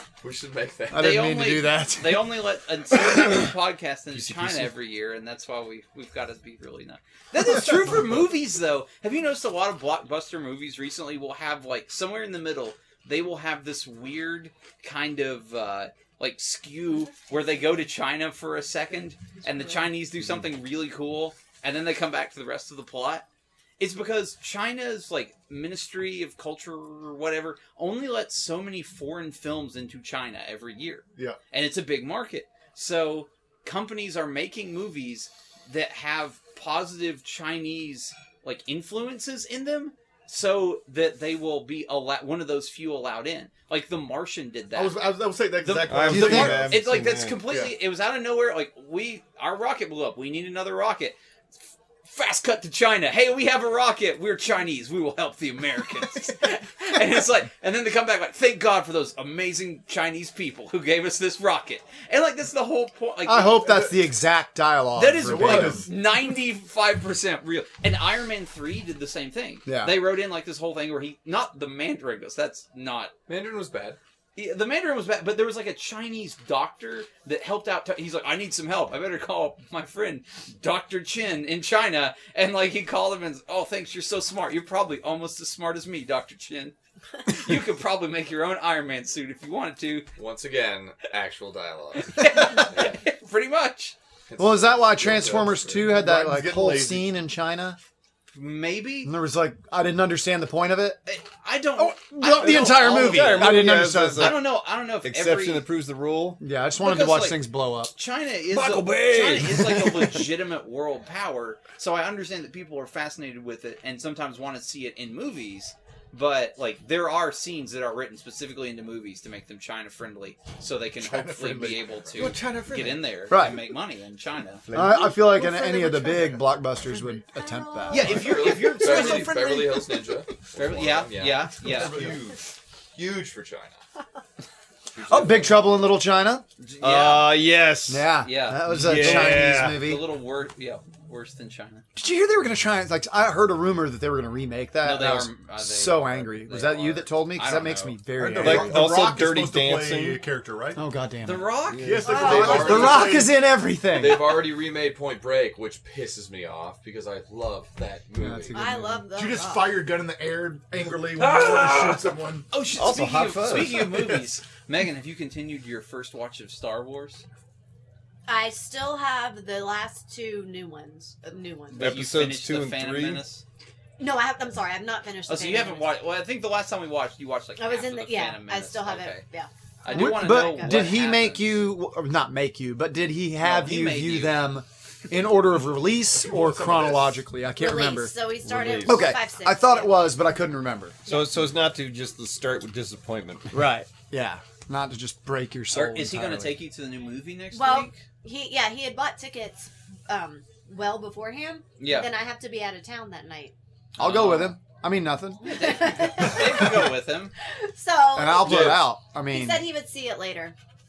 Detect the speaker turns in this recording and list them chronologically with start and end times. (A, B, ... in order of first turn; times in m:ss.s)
0:00.2-0:01.1 A
0:00.9-0:02.4 B
0:01.0-0:23.2 C
0:04.2-0:04.6 D
0:23.8-0:51.2 C
0:44.7-0:46.9 E
0:45.8-0:47.4 D
0:46.1-0:46.7 B
0:47.5-0:47.7 E
0:52.0-1:03.9 C
1:03.2-1:05.9 B
1:03.6-1:04.0 E
1:05.0-1:13.1 C
1:05.2-1:05.9 E
1:09.6-1:10.0 B
1:13.3-1:14.0 A
1:14.4-1:30.1 C
1:30.2-1:33.0 A
1:32.1-1:33.9 C
1:34.3-1:35.8 A
1:34.4-1:37.8 B
1:35.8-1:37.1 E
1:38.3-1:39.1 C
1:39.0-1:41.0 B
1:41.1-1:45.7 C
1:41.8-1:44.4 B
1:42.4-1:46.4 D
1:46.4-1:47.9 B
1:46.8-2:04.6 C
1:48.5-1:50.2 D
2:01.0-2:03.3 E
2:03.3-2:03.6 B
2:04.6-2:05.2 D
2:04.7-2:08.3 B
2:05.7-2:06.4 E
2:06.8-2:08.3 F
2:07.9-2:09.6 C
2:08.1-2:12.4 A
2:08.2-2:09.8 E
2:10.5-2:12.0 C
2:11.6-2:12.3 E
2:12.9-2:13.8 A
2:14.9-2:15.8 A
2:15.1-2:16.4 B
2:16.6-2:17.4 C
2:16.8-2:19.9 D
2:17.9-2:20.0 B
2:18.2-2:21.8 C
2:21.9-2:28.8 B
2:24.8-2:28.0 C
2:28.2-2:30.8 E
2:28.4-2:30.2 D
2:30.7-2:31.6 B
2:31.2-2:33.0 C
2:31.7-2:32.2 D
2:31.8-2:33.4 E
2:32.0-2:32.8 F
2:32.2-2:33.2 A
2:32.2-2:34.4 B
2:33.9-2:38.6 A
2:38.2-2:39.1 B
2:38.5-2:39.8 F
2:39.1-2:42.5 E
2:41.2-2:42.0 C
2:42.5-2:47.2 C
2:42.7-2:43.9 D
2:43.9-2:44.2 E
2:48.3-2:52.0 F
2:51.7-2:53.2 D
2:51.7-2:53.4 C
2:54.0-2:55.9 F
2:55.3-2:59.2 C
2:57.6-3:00.9 F
2:59.8-3:01.6 C
2:59.9-3:08.1 B
3:03.4-3:04.5 C
3:06.1-3:07.2 E
3:07.6-3:10.1 F
3:08.4-3:09.2 D
3:08.8-3:11.0 B
3:11.0-3:13.6 D
3:11.1-3:11.4 F
3:13.5-3:16.6 B
3:15.7-3:18.0 C
3:17.5-3:23.5 F
3:21.8-3:22.1 C
3:24.0-3:24.6 C
3:24.0-3:25.8 B
3:25.5-3:26.8 F
3:25.5-3:27.3 C
3:27.5-3:30.5 F
3:28.1-3:29.6 B